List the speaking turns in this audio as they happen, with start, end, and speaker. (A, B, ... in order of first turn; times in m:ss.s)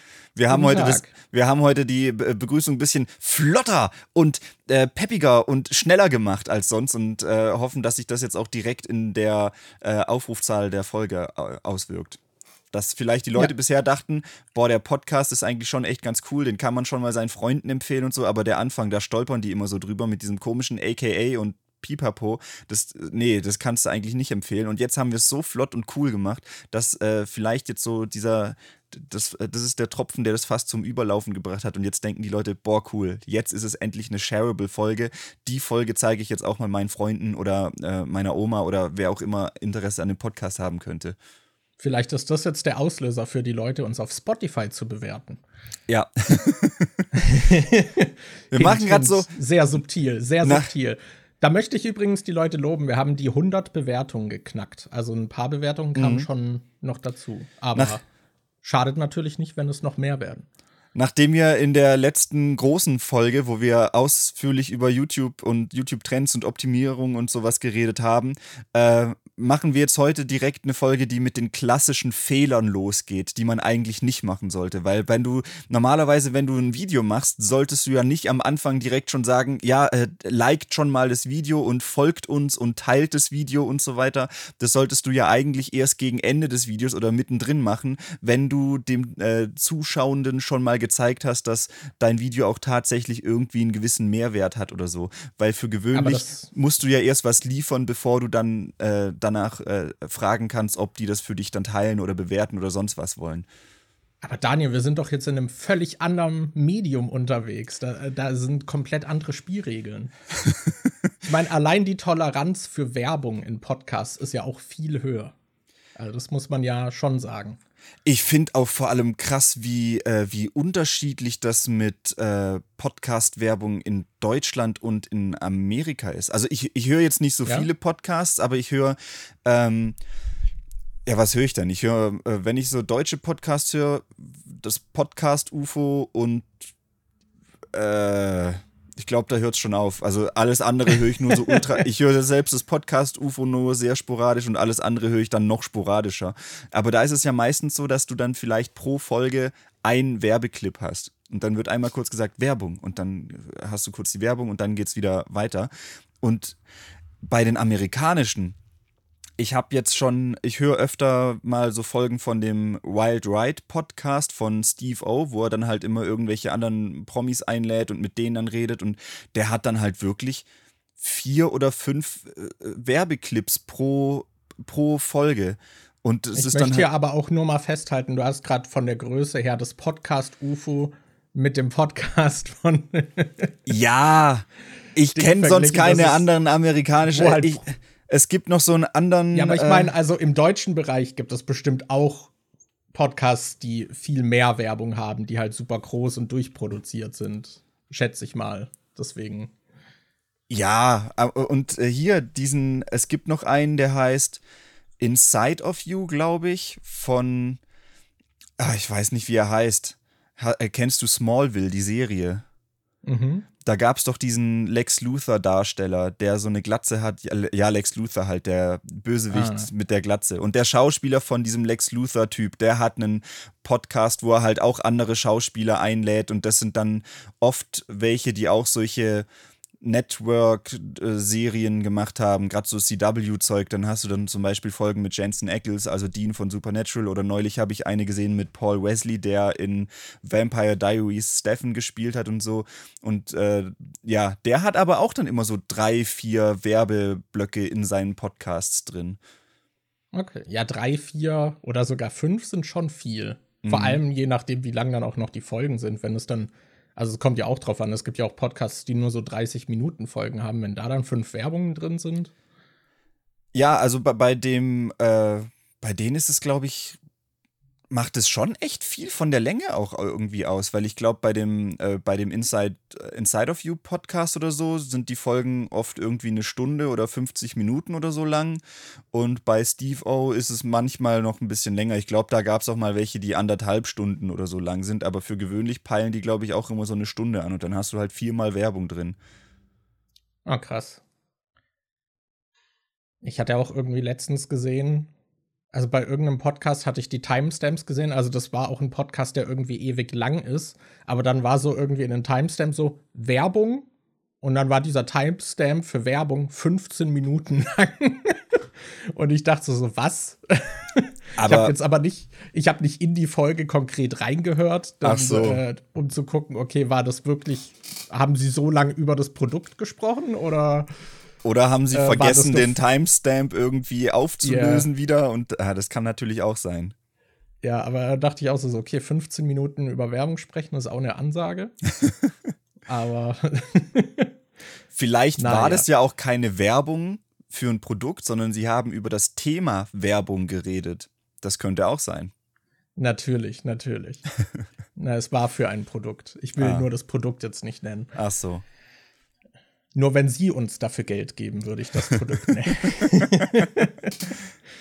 0:00.3-0:12.2 A
0:00.5-0:01.1 B
0:12.7-0:41.2 A
0:41.8-0:45.4 B
0:45.9-0:47.0 A
0:47.1-0:58.0 B
0:48.5-0:49.3 A
0:50.4-0:50.7 A
0:56.0-0:56.3 A
0:58.6-1:00.4 B
1:00.9-1:43.4 A
1:35.9-1:36.5 B
1:44.2-1:50.1 B
1:51.2-1:55.3 B
1:56.0-1:57.6 B
1:58.0-2:10.0 A
2:11.0-2:16.5 A
2:17.7-2:36.6 A
2:37.2-2:38.6 A
2:39.4-2:50.5 A
2:51.0-2:56.9 A
2:56.3-3:03.5 B
3:03.7-3:09.9 A
3:05.1-3:06.2 B
3:07.1-3:07.6 B
3:09.3-3:12.3 B
3:12.9-3:19.5 B
3:20.5-3:24.4 A
3:25.0-3:27.6 A
3:28.6-3:32.4 A
3:33.0-3:33.4 B
3:33.6-3:49.3 A
3:39.3-3:39.7 B
3:49.8-4:09.2 A
4:10.1-4:22.3 B
4:13.6-4:14.0 A
4:23.5-4:27.0 A
4:27.9-4:38.6 A
4:39.1-4:49.2 A
4:50.4-4:51.0 B
4:53.2-4:55.1 B
4:55.7-5:03.9 B
5:04.4-5:08.6 B
5:09.1-5:20.9 B
5:11.4-5:11.7 A
5:15.0-5:15.6 A
5:21.4-5:26.9 A
5:21.9-5:22.8 B
5:24.4-5:24.9 B
5:27.6-5:31.7 B
5:32.9-5:34.3 B
5:34.9-5:42.3 A
5:35.4-5:35.8 B
5:43.0-5:44.2 B
5:45.0-5:48.1 B
5:46.6-5:46.9 A
5:48.1-5:48.6 A
5:49.9-5:54.3 B